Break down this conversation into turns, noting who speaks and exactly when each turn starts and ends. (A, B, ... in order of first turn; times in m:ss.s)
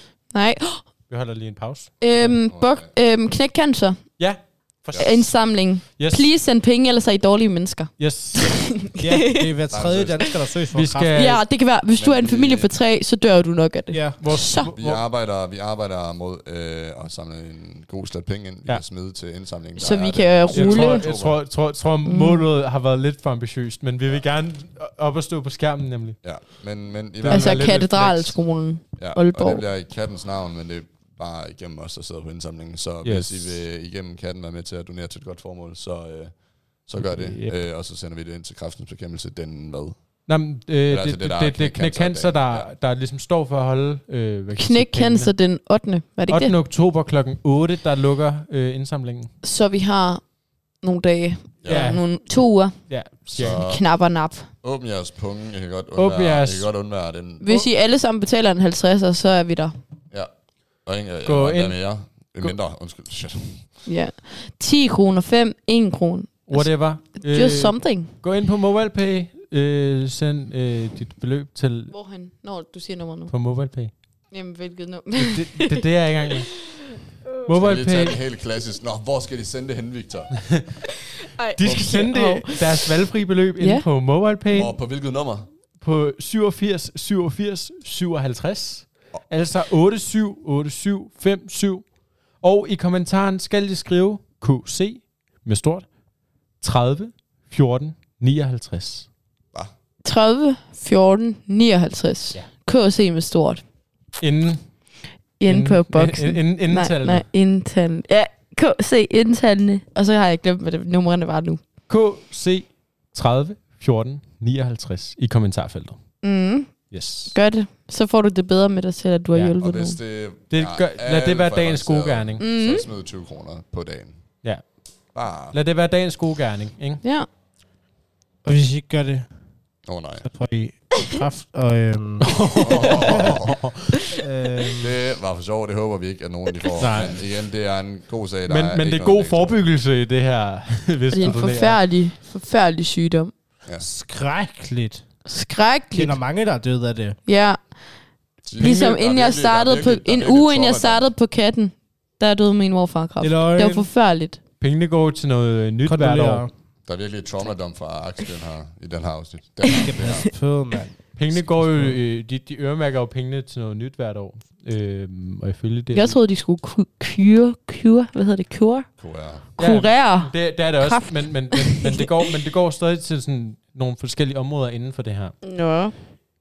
0:00.3-0:00.9 A
0:01.1-0:02.3 B
0:02.0-0:04.2 A
0:02.2-0:02.9 C
0:04.2-0:05.5 B
0:05.0-0:09.6 A
0:06.0-0:06.3 B
0:08.0-0:08.7 B
0:09.0-0:11.3 D
0:09.7-0:10.3 C
0:10.7-0:11.4 B
0:11.1-0:14.7 A
0:11.9-0:12.7 C
0:13.9-0:14.3 D
0:14.2-0:15.0 B
0:14.7-0:21.4 C
0:19.8-0:21.1 A
0:20.5-0:26.5 B
0:22.0-0:22.5 A
0:26.2-0:27.9 C
0:27.2-0:28.4 B
0:27.3-0:29.7 A
0:29.0-0:40.3 C
0:33.0-0:33.6 B
0:37.0-0:37.6 B
0:40.3-0:45.3 B
0:40.9-0:42.7 C
0:44.6-0:46.6 A
0:46.3-0:49.3 B
0:49.4-0:54.5 A
0:51.6-0:51.9 C
0:51.7-0:53.6 B
0:53.3-0:54.1 C
0:54.6-0:57.7 C
0:56.0-0:56.7 B
0:57.4-0:59.8 A
1:00.1-1:03.8 C
1:01.2-1:02.6 B
1:03.9-1:08.1 A
1:06.5-1:11.9 B
1:11.9-1:13.3 A
1:13.3-1:13.9 B
1:14.3-1:15.8 A
1:15.2-1:16.8 B
1:17.4-1:18.2 B
1:17.5-1:20.5 C
1:21.3-1:23.0 A
1:21.6-1:24.8 B
1:23.6-1:23.8 A
1:24.5-1:25.5 C
1:25.8-1:35.9 B
1:36.6-1:39.1 B
1:40.0-1:43.6 A
1:44.2-1:47.2 B
1:45.4-1:51.6 A
1:51.9-1:56.0 B
1:56.2-2:00.0 A
1:56.9-1:57.4 B
1:59.6-2:04.4 C
2:00.5-2:02.4 B
2:02.4-2:02.9 A
2:04.4-2:04.9 B
2:05.1-2:05.6 C
2:05.5-2:07.0 B
2:07.0-2:07.3 A
2:08.4-2:09.3 D
2:09.9-2:10.3 C
2:10.2-2:13.4 D
2:12.3-2:14.1 B
2:12.6-2:13.6 C
2:14.2-2:15.0 D
2:14.8-2:19.6 C
2:16.8-2:17.2 B
2:18.5-2:21.8 B
2:21.1-2:23.3 A
2:23.8-2:25.0 D
2:25.3-2:26.2 A
2:25.9-2:27.2 D
2:27.3-2:27.9 A
2:28.4-2:31.1 C
2:28.6-2:28.9 B
2:28.6-2:34.4 A
2:33.2-2:33.9 D
2:34.6-2:36.5 B
2:35.8-2:36.5 D
2:36.8-2:40.3 C
2:39.7-2:42.0 D
2:39.7-2:40.3 A
2:41.2-2:46.2 B
2:45.9-2:52.0 A
2:49.0-2:49.5 C
2:49.6-2:55.4 B
2:55.4-2:56.0 A